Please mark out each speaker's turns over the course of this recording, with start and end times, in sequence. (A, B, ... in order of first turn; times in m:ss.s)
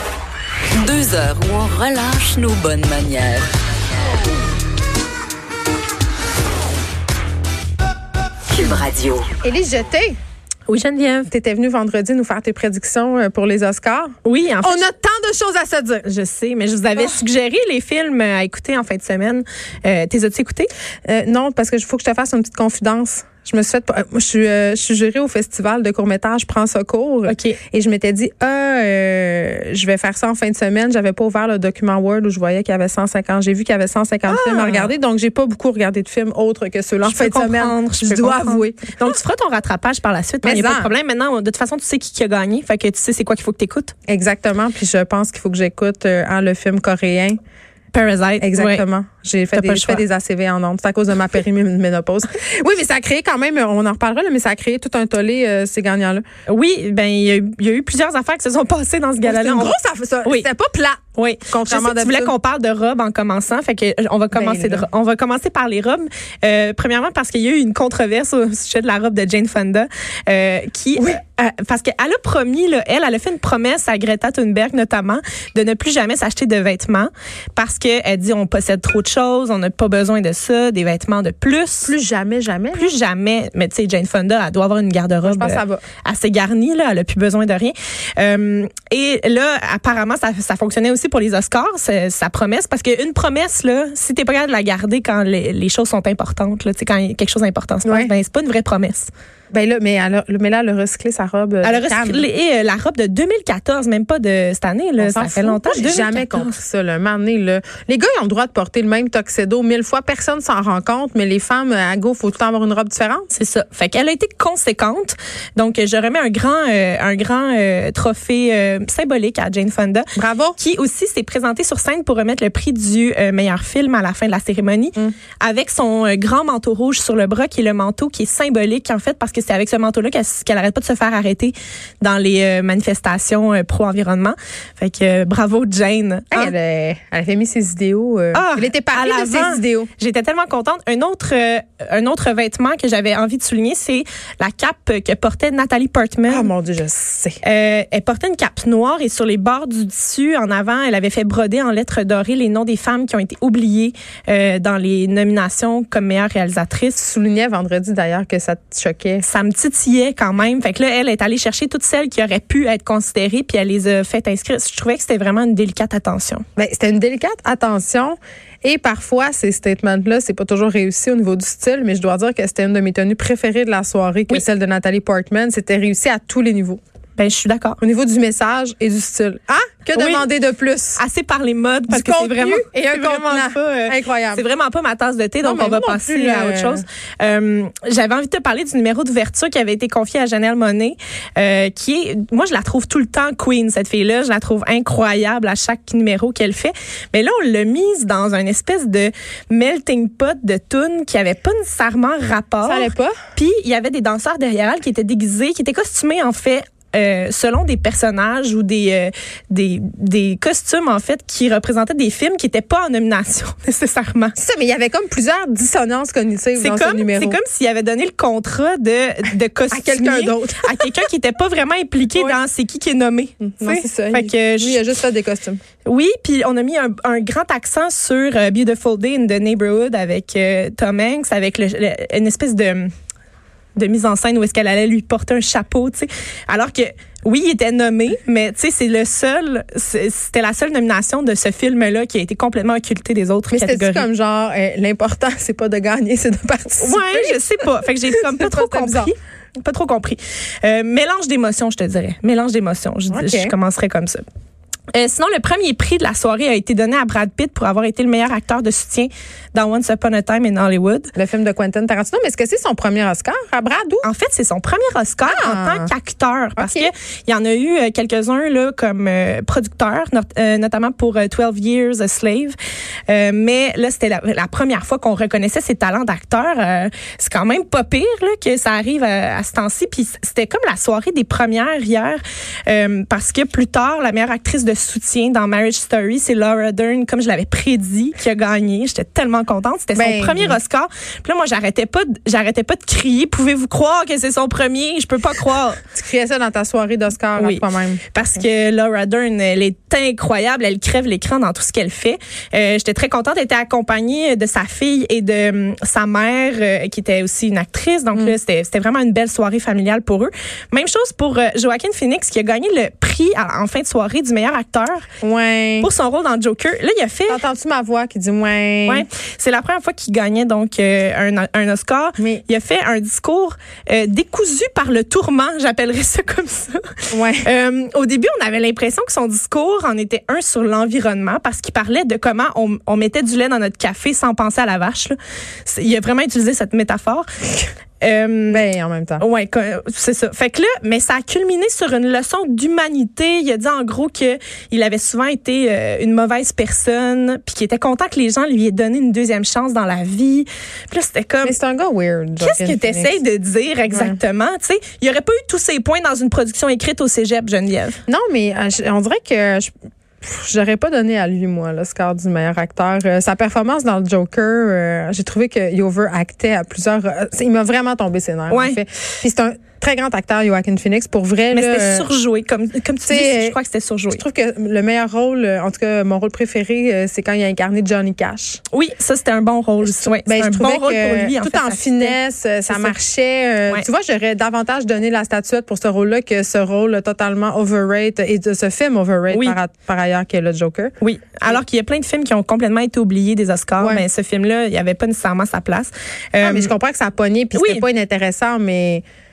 0:00.8-0:03.5 A
0:08.5-0:09.4 A
0:09.4-0:10.2 B
0:10.7-0:11.3 C
0:11.3-0:16.0 B
0:14.2-0:14.9 C
0:16.0-0:20.7 C
0:17.0-0:17.2 B
0:21.1-0:39.2 B
0:27.3-0:27.6 C
0:34.3-0:34.9 C
0:37.0-0:43.9 C
0:40.4-0:40.9 B
0:44.1-0:47.4 B
0:47.9-0:48.8 C
0:48.4-0:56.2 B
0:49.5-0:50.0 C
0:56.5-1:00.5 C
0:59.2-1:02.3 B
1:01.2-1:22.0 C
1:04.3-1:04.9 B
1:21.8-1:22.9 B
1:22.7-1:39.1 C
1:25.2-1:25.8 B
1:37.8-1:38.1 B
1:39.5-1:42.3 B
1:41.6-1:46.6 C
1:45.0-1:53.3 B
1:53.3-2:16.5 C
2:00.2-2:00.6 B
2:16.3-2:19.9 B
2:18.3-2:26.5 C
2:26.3-2:27.4 B
2:27.4-2:37.0 C
2:37.0-2:39.2 B
2:39.2-2:46.4 C
2:46.6-2:56.8 B
2:57.2-2:57.8 C
2:57.8-3:01.0 B
2:59.9-3:00.3 C
3:01.0-3:34.4 C
3:01.9-3:04.4 B
3:05.4-3:06.8 B
3:22.6-3:23.1 B
3:34.4-3:37.4 B
3:36.6-3:44.8 C
3:39.7-3:41.0 B
3:43.4-3:45.6 B
3:45.8-3:52.9 C
3:53.8-4:04.1 C
4:03.5-4:09.1 B
4:06.8-4:14.2 C
4:13.1-4:13.5 B
4:14.9-4:21.1 C
4:21.2-4:24.1 B
4:24.0-4:32.6 C
4:25.2-4:25.9 B
4:26.6-4:26.9 B
4:33.1-4:55.8 C
4:49.9-4:50.6 B
4:56.0-4:58.0 B
4:57.4-5:15.1 C
5:15.2-5:15.9 B
5:15.8-5:17.4 C
5:17.3-5:19.1 B
5:18.9-5:37.3 C
5:22.2-5:22.4 B
5:27.1-5:27.5 B
5:38.0-5:38.7 C
5:38.5-5:39.2 B
5:39.2-5:51.6 C
5:51.4-5:53.2 B
5:52.4-5:58.0 C
5:53.9-5:54.2 B
5:58.1-6:12.1 B
6:08.5-6:08.8 C
6:11.5-6:14.2 C
6:13.0-6:13.6 B
6:14.1-6:18.6 B
6:18.7-6:22.2 C
6:19.8-6:30.9 B
6:22.7-6:23.0 C
6:29.3-6:29.6 C
6:31.0-6:36.8 C
6:33.8-6:34.1 B
6:36.4-6:39.0 B
6:37.5-6:37.8 C